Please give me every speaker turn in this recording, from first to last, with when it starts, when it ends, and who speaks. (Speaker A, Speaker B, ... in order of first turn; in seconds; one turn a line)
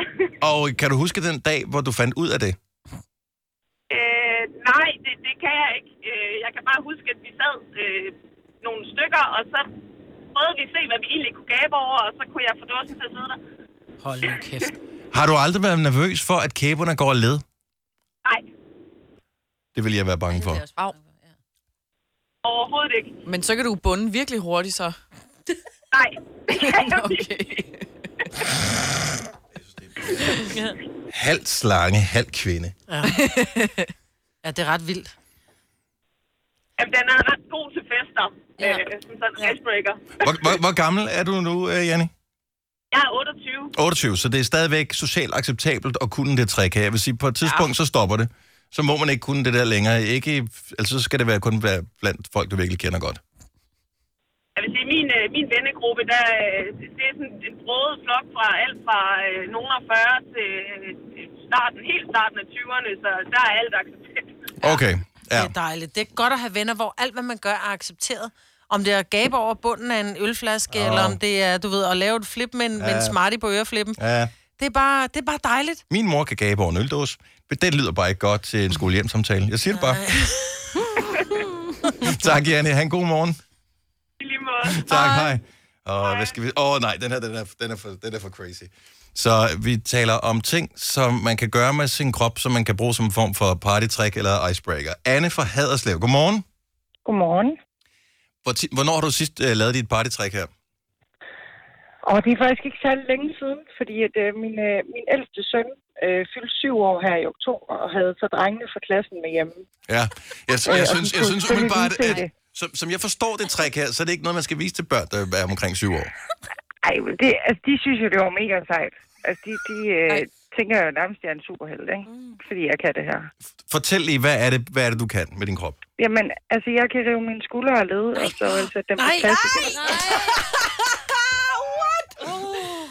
Speaker A: 0.4-2.6
Speaker B: 3.9-9.7
Speaker B: 10.3-13.4
Speaker B: 14.2-14.7
Speaker A: 15.1-17.4
Speaker A: 19.8-20.6
Speaker C: 20.3-21.0
Speaker D: 20.4-21.3
Speaker B: 22.4-23.1
Speaker C: 23.3-25.0
Speaker B: 25.9-27.3
Speaker C: 26.5-27.9
Speaker A: 29.6-30.4
Speaker D: 30.5-30.8
Speaker A: 31.1-32.8
Speaker D: 32.9-33.2
Speaker C: 33.0-33.9
Speaker D: 34.4-35.1
Speaker B: 36.8-40.4
Speaker D: 38.6-38.9
Speaker A: 40.2-42.1
Speaker B: 42.9-43.7
Speaker A: 43.8-53.2
Speaker B: 54.6-64.3
Speaker A: 64.6-65.5
Speaker D: 65.3-75.8
Speaker A: 70.7-71.2
Speaker A: 72.8-73.2
Speaker A: 74.0-74.3
Speaker A: 75.9-80.0
Speaker D: 79.7-82.0
Speaker A: 82.0-83.4
Speaker B: 84.2-84.8
Speaker A: 84.6-96.4
Speaker D: 84.9-85.3
Speaker B: 86.0-86.3
Speaker E: 97.0-97.6
Speaker A: 98.4-100.5
Speaker E: 102.0-109.6
Speaker A: 109.9-116.1
Speaker E: 110.7-112.3
Speaker E: 116.8-123.3
Speaker C: 122.1-122.4
Speaker A: 123.7-125.8
Speaker E: 126.0-130.2
Speaker D: 128.2-130.0
Speaker C: 129.8-130.4
Speaker D: 131.5-132.3